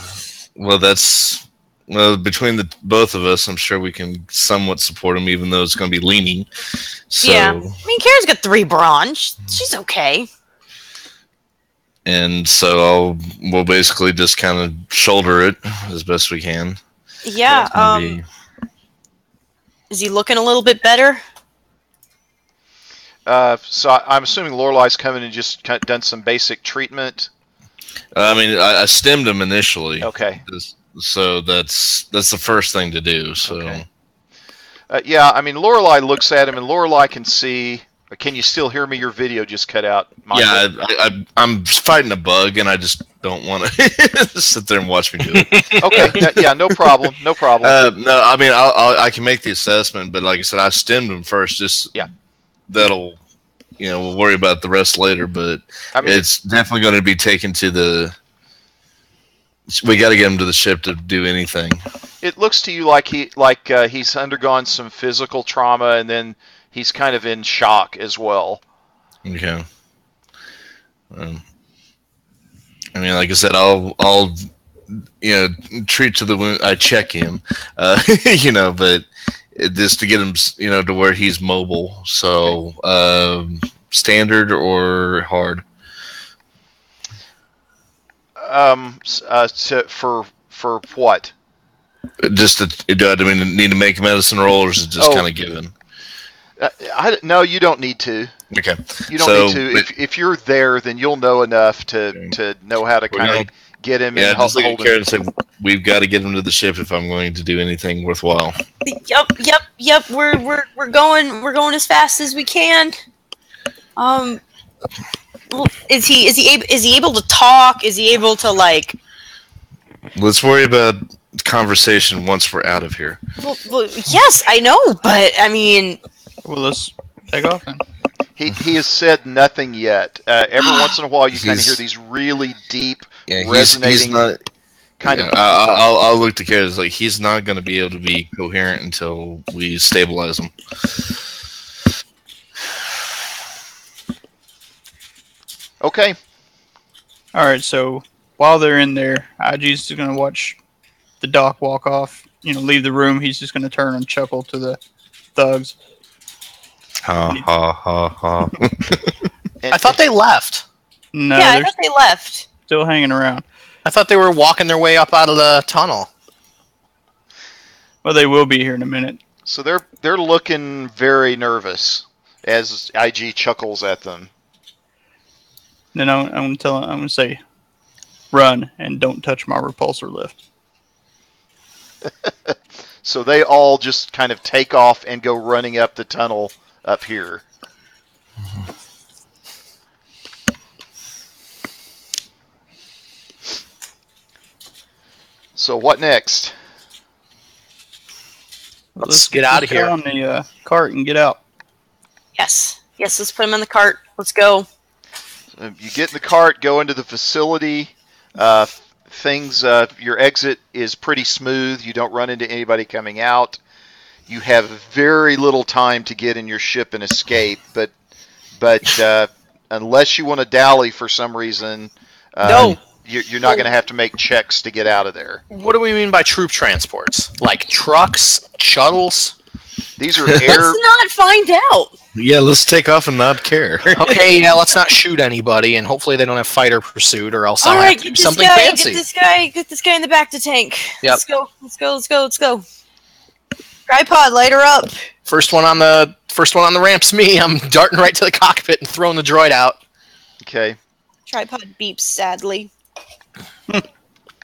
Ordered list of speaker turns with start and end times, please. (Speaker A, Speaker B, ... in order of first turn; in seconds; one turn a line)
Speaker A: 0.6-6.5
Speaker A: 7.1-7.8
Speaker B: 7.2-10.3
Speaker A: 12.1-16.8
Speaker B: 17.2-18.2
Speaker A: 17.5-18.2
Speaker B: 19.9-21.2
Speaker C: 23.3-27.3
Speaker A: 28.1-33.8
Speaker C: 30.0-30.4
Speaker C: 33.5-33.8
Speaker C: 34.9-40.6
Speaker A: 40.3-46.2
Speaker C: 45.8-47.8
Speaker A: 47.6-52.0
Speaker A: 52.7-53.2
Speaker A: 53.8-58.2
Speaker C: 56.0-56.3
Speaker A: 59.7-61.8
Speaker C: 62.2-68.6
Speaker A: 69.2-69.7
Speaker A: 71.1-71.4
Speaker A: 73.0-85.7
Speaker C: 88.4-91.3
Speaker A: 92.2-95.7
Speaker C: 95.0-95.3
Speaker C: 96.6-98.3
Speaker A: 98.5-99.9
Speaker C: 99.1-105.0
Speaker A: 103.1-103.5
Speaker A: 104.2-108.6
Speaker B: 108.8-113.0
Speaker B: 114.0-114.4
Speaker B: 115.5-119.0
Speaker A: 120.2-123.2
Speaker B: 123.4-126.0
Speaker D: 126.5-127.8
Speaker C: 128.4-134.3
Speaker B: 130.7-130.9
Speaker A: 131.3-131.8
Speaker A: 133.3-134.4
Speaker C: 135.0-135.3
Speaker A: 135.1-140.5
Speaker C: 145.8-146.2
Speaker D: 147.3-150.6
Speaker D: 151.2-154.8
Speaker D: 155.4-155.8
Speaker A: 157.0-159.1
Speaker C: 159.6-160.0
Speaker E: 159.7-160.6
Speaker D: 161.1-161.7
Speaker B: 161.4-162.5
Speaker D: 162.7-163.4
Speaker E: 163.8-166.1
Speaker D: 168.0-169.2
Speaker C: 169.4-174.3
Speaker D: 175.9-177.4
Speaker D: 178.3-180.4
Speaker C: 182.2-187.4
Speaker C: 195.6-196.6
Speaker D: 199.0-201.4
Speaker E: 199.0-199.9
Speaker B: 202.4-204.7
Speaker C: 205.6-213.6
Speaker C: 214.3-217.9
Speaker C: 218.6-225.4
Speaker B: 222.5-222.8
Speaker E: 225.5-229.3
Speaker C: 230.0-230.8
Speaker B: 230.4-231.9
Speaker A: 232.2-234.1
Speaker E: 233.9-239.0
Speaker B: 237.6-242.7
Speaker B: 243.9-244.9
Speaker E: 245.3-249.8
Speaker C: 250.4-250.8
Speaker B: 251.3-252.7